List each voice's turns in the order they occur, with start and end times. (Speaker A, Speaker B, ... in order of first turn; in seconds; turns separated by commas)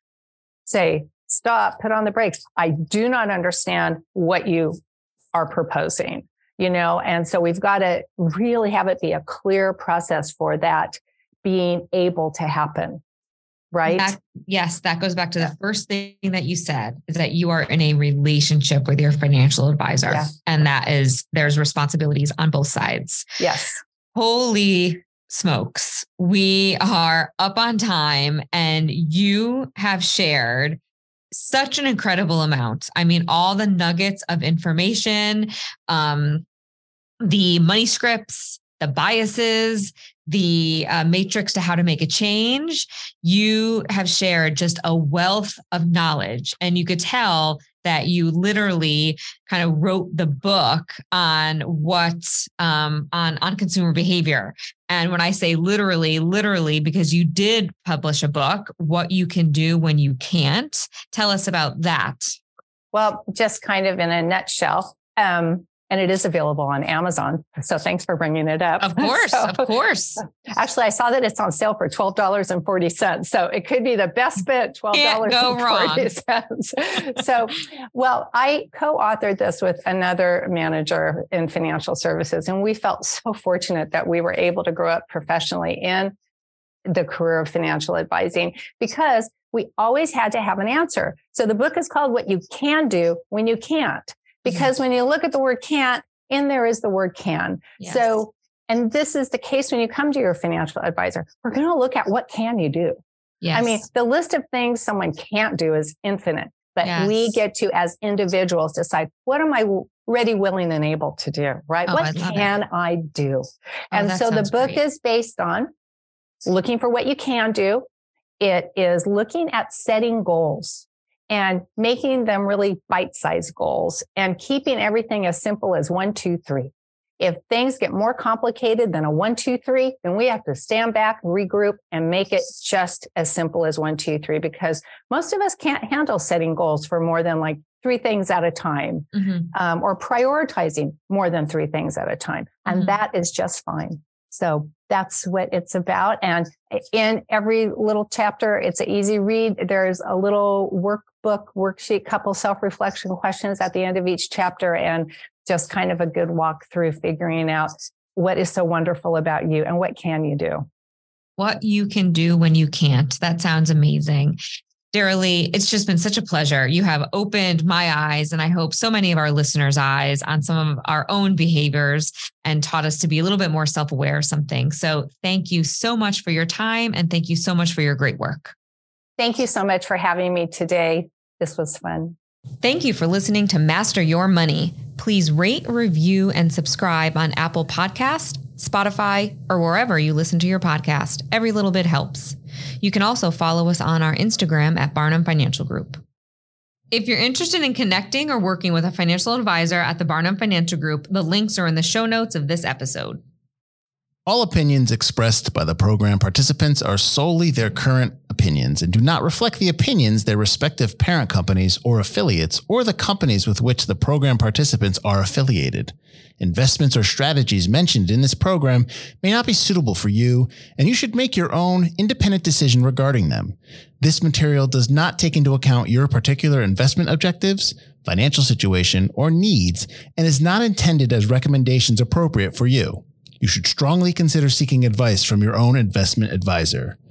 Speaker A: 0.7-4.8, Speaker A: 5.3-13.0, Speaker A: 13.7-14.2, Speaker B: 13.9-23.3, Speaker A: 23.4-23.8, Speaker B: 24.1-30.8, Speaker B: 31.3-36.5, Speaker B: 37.2-62.4, Speaker A: 62.9-69.7, Speaker B: 68.8-70.2, Speaker A: 70.4-86.2, Speaker B: 74.9-76.1, Speaker A: 86.8-103.0, Speaker B: 103.4-103.8, Speaker A: 103.5-115.7, Speaker B: 106.8-107.3, Speaker B: 111.9-112.6, Speaker B: 113.9-114.8, Speaker A: 116.5-117.9, Speaker A: 118.4-160.7, Speaker B: 139.2-139.5, Speaker B: 142.7-143.0, Speaker B: 161.4-164.4, Speaker B: 164.9-178.5, Speaker A: 179.2-182.2, Speaker B: 182.6-196.0, Speaker B: 196.9-203.2, Speaker C: 204.3-237.0